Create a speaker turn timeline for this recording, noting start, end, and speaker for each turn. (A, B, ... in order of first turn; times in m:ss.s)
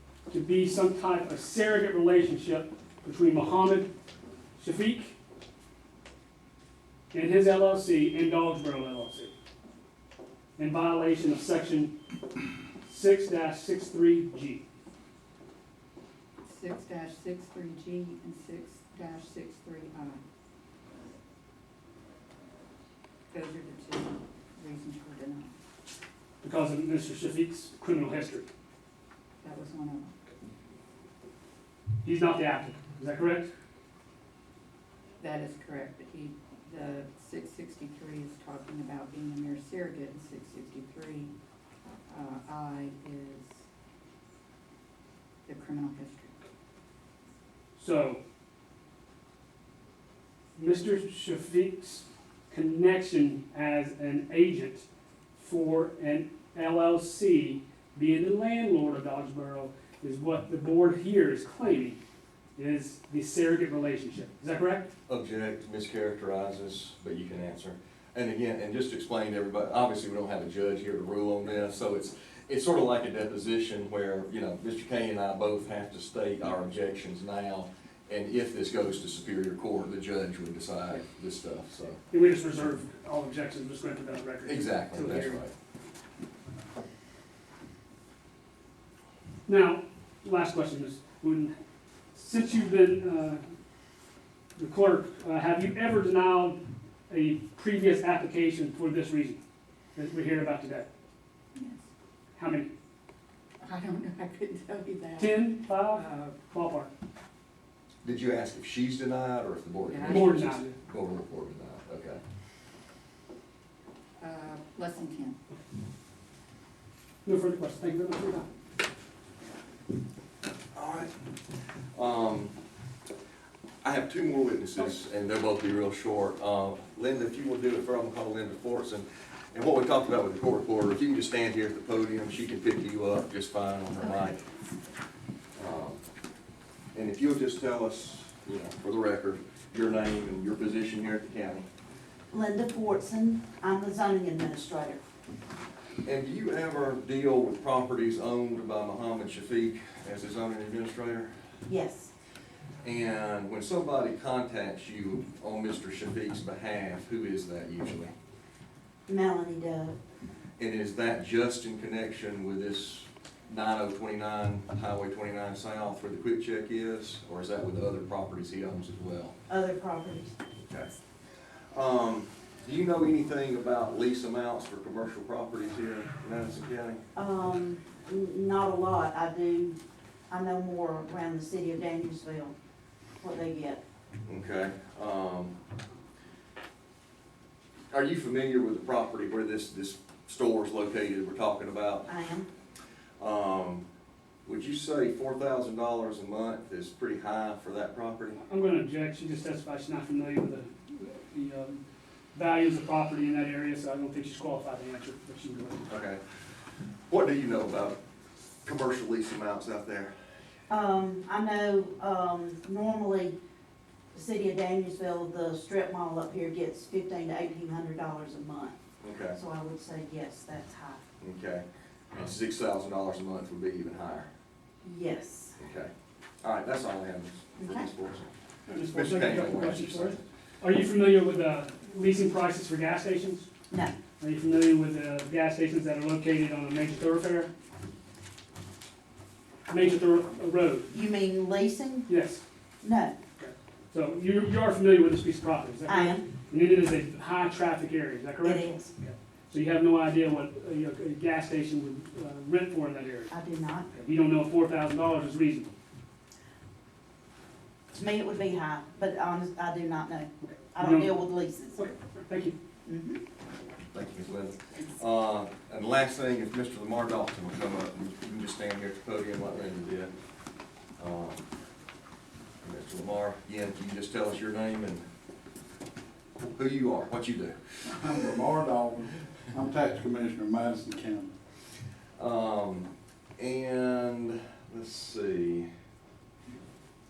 0:00.3-0:03.9 A
0:04.6-0:05.2 A
0:07.1-0:09.3 A
0:10.6-0:12.0 A
0:12.8-0:14.6 A
0:16.4-0:20.2 B
0:23.3-0:25.5 B
0:26.4-0:28.5 A
0:29.4-0:30.1 B
0:32.0-0:33.5 A
0:35.2-0:41.3 B
0:42.1-0:43.6 B
0:45.5-0:46.4 B
0:47.8-0:48.2 A
0:50.6-1:02.0 A
1:02.6-1:04.9 A
1:05.1-1:22.0 C
1:22.1-1:25.4 A
1:24.4-1:25.5 C
1:29.5-1:31.6 A
1:32.1-1:33.4 A
1:34.6-1:39.4 A
1:40.0-1:40.9 A
1:41.6-1:41.9 B
1:42.4-1:42.7 A
1:43.6-1:46.4 B
1:45.2-1:46.9 A
1:48.0-1:52.2 C
1:49.8-1:50.7 B
1:50.0-1:50.7 A
1:54.2-1:55.4 B
1:57.2-1:58.5 A
2:00.8-2:01.1 C
2:02.0-2:02.6 C
2:03.8-2:14.4 C
2:15.6-2:16.0 C
2:16.9-2:21.7 C
2:22.3-2:25.0 D
2:26.0-2:31.3 C
2:31.7-2:32.1 D
2:32.8-2:38.1 C
2:39.1-2:40.0 D
2:40.6-2:49.4 C
2:49.5-2:50.4 D
2:50.6-2:51.0 C
2:51.7-2:57.0 C
2:57.2-2:59.8 D
3:00.3-3:02.5 D
3:03.2-3:03.8 D
3:04.3-3:05.6 C
3:07.9-3:12.1 C
3:12.1-3:12.5 D
3:13.2-3:13.8 C
3:14.5-3:18.4 C
3:18.4-3:21.8 A
3:22.3-3:25.9 A
3:25.9-3:26.2 C
3:27.1-3:28.0 C
3:28.6-3:30.1 C
3:30.7-3:33.4 D
3:34.1-3:38.8 D
3:39.0-3:39.4 C
3:39.4-3:41.0 D
3:41.2-3:44.3 C
3:44.8-3:45.6 D
3:45.6-3:45.9 C
3:46.4-3:48.3 C
3:47.6-3:47.9 D
3:48.7-3:53.5 A
3:48.9-3:50.2 C
3:53.7-3:54.0 D
3:54.2-3:57.5 A
3:59.7-4:00.9 A
4:00.9-4:02.1 D
4:02.1-4:02.4 A
4:02.8-4:03.2 D
4:03.4-4:13.3 A
4:05.9-4:06.3 D
4:08.4-4:08.9 D
4:13.3-4:13.9 D
4:13.9-4:15.7 A
4:17.9-4:21.9 D
4:20.7-4:22.6 A
4:22.8-4:23.2 D
4:23.9-4:30.1 C
4:31.0-4:31.4 C
4:32.6-4:35.0 C
4:36.5-4:37.6 C
4:37.9-4:41.3 E
4:42.2-4:45.7 C